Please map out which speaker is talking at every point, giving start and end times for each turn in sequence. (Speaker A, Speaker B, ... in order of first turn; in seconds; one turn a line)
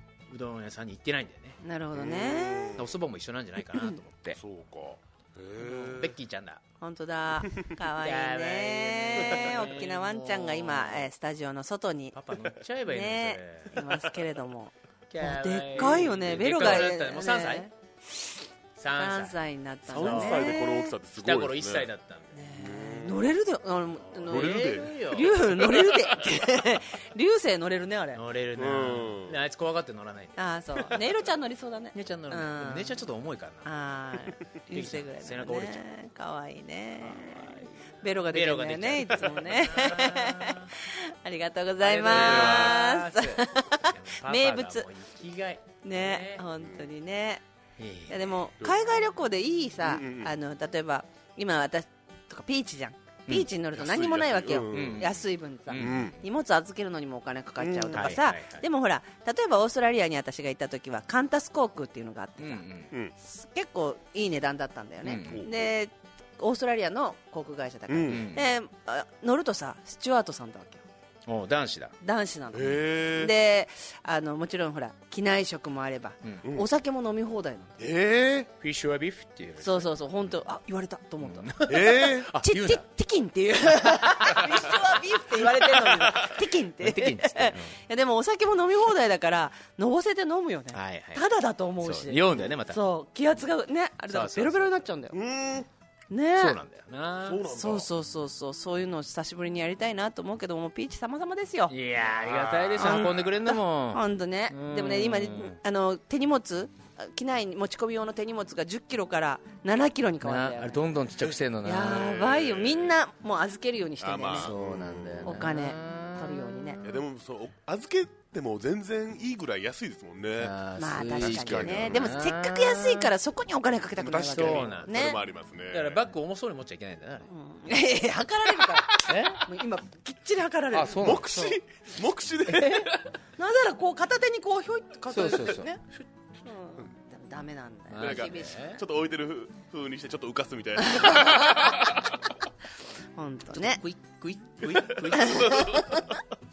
Speaker A: 0.3-1.6
Speaker B: 1.6-2.8
Speaker C: 1.9-2.8
Speaker A: 2.8-4.4
Speaker C: 4.3-6.1
Speaker A: 5.7-6.6
Speaker B: 6.8-12.2
Speaker A: 8.0-11.1
Speaker C: 9.2-9.7
Speaker A: 12.1-14.0
Speaker B: 12.8-17.7
Speaker A: 15.1-17.7
Speaker A: 18.8-19.4
Speaker B: 19.0-20.9
Speaker A: 19.9-20.6
Speaker C: 19.9-21.9
Speaker A: 21.2-22.4
Speaker B: 22.3-28.2
Speaker C: 22.5-23.2
Speaker A: 24.0-25.4
Speaker C: 24.3-24.9
Speaker A: 28.1-30.4
Speaker C: 28.6-29.3
Speaker B: 30.4-32.9
Speaker A: 31.9-33.7
Speaker B: 33.6-44.9
Speaker A: 34.7-35.8
Speaker A: 37.0-40.7
Speaker A: 41.8-46.4
Speaker C: 42.1-42.8
Speaker B: 45.8-47.4
Speaker C: 46.6-46.8
Speaker A: 47.8-48.3
Speaker B: 48.1-62.6
Speaker C: 48.6-49.0
Speaker C: 49.8-50.3
Speaker C: 53.7-55.1
Speaker A: 54.5-55.1
Speaker A: 55.7-56.2
Speaker C: 55.7-56.2
Speaker C: 57.6-58.1
Speaker A: 57.9-58.6
Speaker A: 62.4-62.9
Speaker B: 63.2-70.8
Speaker A: 65.0-65.4
Speaker C: 65.3-65.7
Speaker C: 67.9-68.2
Speaker A: 68.1-68.4
Speaker A: 71.2-71.9
Speaker B: 72.0-77.8
Speaker C: 72.5-73.3
Speaker C: 77.8-78.5
Speaker A: 78.6-79.9
Speaker B: 79.6-95.2
Speaker A: 81.2-82.8
Speaker C: 81.7-82.3
Speaker A: 84.1-84.7
Speaker A: 85.5-87.7
Speaker A: 90.7-91.2
Speaker A: 91.8-92.8
Speaker A: 94.1-94.7
Speaker C: 95.1-95.7
Speaker B: 96.1-96.6
Speaker A: 96.3-97.4
Speaker C: 97.2-97.9
Speaker B: 97.5-101.7
Speaker A: 101.7-105.6
Speaker B: 102.8-110.7
Speaker A: 110.2-112.1
Speaker C: 111.2-112.9
Speaker B: 111.6-114.5
Speaker C: 114.0-115.4
Speaker A: 114.3-117.0
Speaker B: 115.2-116.8
Speaker C: 116.8-122.1
Speaker A: 120.4-123.1
Speaker B: 120.8-125.2
Speaker A: 124.0-125.2
Speaker C: 124.1-126.0
Speaker A: 125.7-127.3
Speaker B: 127.2-131.3
Speaker A: 129.0-129.4
Speaker A: 130.7-131.6
Speaker C: 131.0-133.0
Speaker A: 132.5-132.9
Speaker B: 133.4-135.8
Speaker A: 135.1-135.8
Speaker B: 136.4-138.8
Speaker A: 137.9-138.8
Speaker C: 138.0-142.1
Speaker B: 140.8-141.6
Speaker B: 143.2-143.8
Speaker A: 143.5-145.7
Speaker C: 144.7-146.0
Speaker B: 145.1-146.0